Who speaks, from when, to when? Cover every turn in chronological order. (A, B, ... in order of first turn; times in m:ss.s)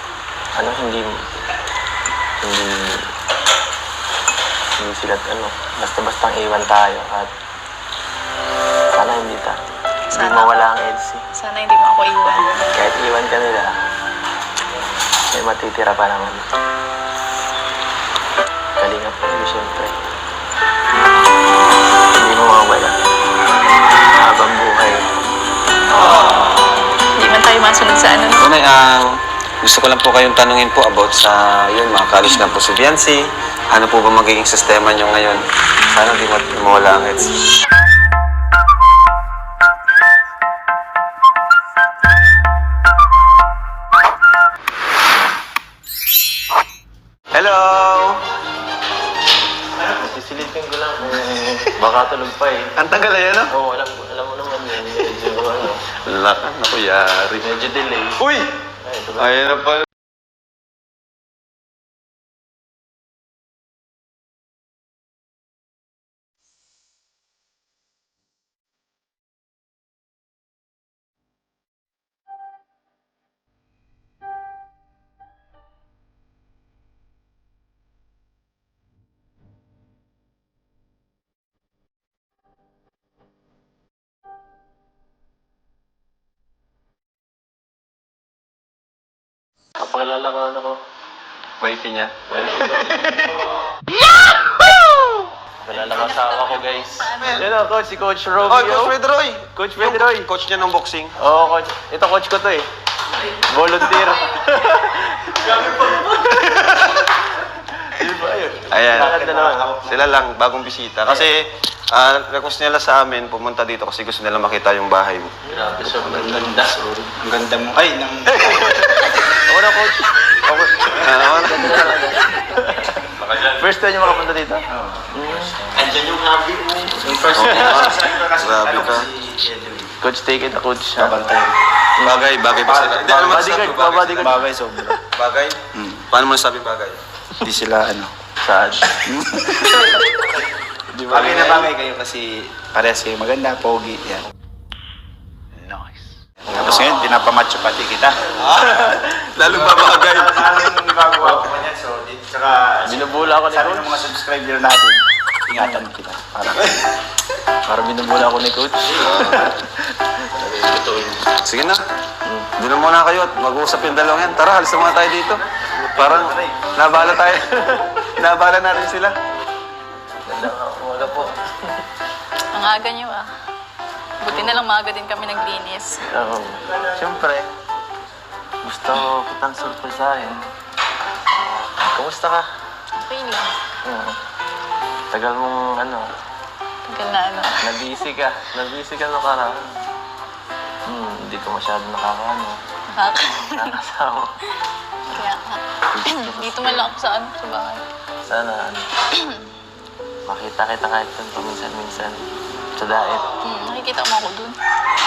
0:00.6-0:01.1 A
0:02.4-0:03.0 A
0:04.8-0:07.3 A
0:08.9-0:09.5 A
0:10.1-0:10.7 B
0:10.1-0:11.3 A
0:11.3-0:12.7 B
0:12.7-0:13.7 A
0:15.3-0:16.4 A
0:18.8-0:19.9 A
0:22.2-0:22.9 A
0:24.1-0:25.0 A
0:27.2-0:28.5 B
0:28.4-0:29.1 C
0:29.6-0:35.4 C
0:35.9-0:37.3 C
0:47.3-0:48.2 C
0:49.8-0:52.7 A
0:52.8-0:53.5 C
0:53.5-0:55.8 A
0:56.0-0:57.5 C
0:57.4-0:58.2 A
0:58.2-0:58.5 C
0:58.8-0:59.3 A
0:59.2-0:59.8 C
1:29.8-1:30.8 A
1:31.6-1:33.1 C
1:32.3-1:33.2 A
1:35.6-1:39.0 A
1:35.8-1:37.4 B
1:37.1-1:37.4 C
1:38.5-1:41.1 C
1:39.5-1:40.3 A
1:41.2-1:42.7 A
1:43.2-1:49.8 A
1:48.7-1:49.2 C
1:48.9-1:50.1 D
1:49.8-1:51.4 C
1:51.9-1:56.2 C
1:55.4-1:57.1 A
1:56.1-1:58.7 D
1:58.3-2:05.9 A
2:01.0-2:01.7 C
2:01.7-2:01.9 D
2:03.3-2:03.6 C
2:05.8-2:09.9 D
2:06.8-2:08.0 A
2:07.3-2:09.1 C
2:10.0-2:11.2 A
2:11.0-2:11.6 D
2:12.0-2:12.3 A
2:12.0-2:14.2 C
2:12.5-2:15.0 D
2:13.2-2:15.0 A
2:15.1-2:15.6 C
2:15.7-2:16.0 D
2:16.1-2:17.0 C
2:17.4-2:18.1 D
2:18.4-2:19.9 A
2:19.0-2:20.0 D
2:21.0-2:24.2 D
2:21.0-2:21.7 C
2:25.6-2:28.3 D
2:28.4-2:30.5 C
2:28.6-2:29.1 A
2:29.4-2:36.8 D
2:32.8-2:33.9 A
2:35.6-2:35.9 A
2:37.7-2:39.7 A
2:38.9-2:39.5 C
2:40.3-2:41.2 A
2:41.4-2:41.8 C
2:42.6-2:45.4 C
2:45.9-2:49.2 C
2:46.0-2:46.6 D
2:50.2-2:51.8 A
2:51.0-2:51.3 B
2:52.5-2:53.3 B
2:54.2-2:56.0 B
2:54.3-2:54.7 A
2:56.1-2:57.4 A
2:58.6-3:00.4 A
3:01.4-3:02.5 A
3:03.0-3:03.6 B
3:03.8-3:04.2 A
3:05.1-3:06.1 A
3:06.9-3:07.7 B
3:07.6-3:09.6 A
3:10.9-3:12.6 A
3:12.9-3:13.8 B
3:13.4-3:14.3 A
3:15.1-3:17.8 B
3:15.9-3:16.9 A
3:18.3-3:18.9 A
3:19.1-3:19.5 B
3:20.2-3:22.2 A
3:22.8-3:23.2 A
3:23.4-3:24.6 B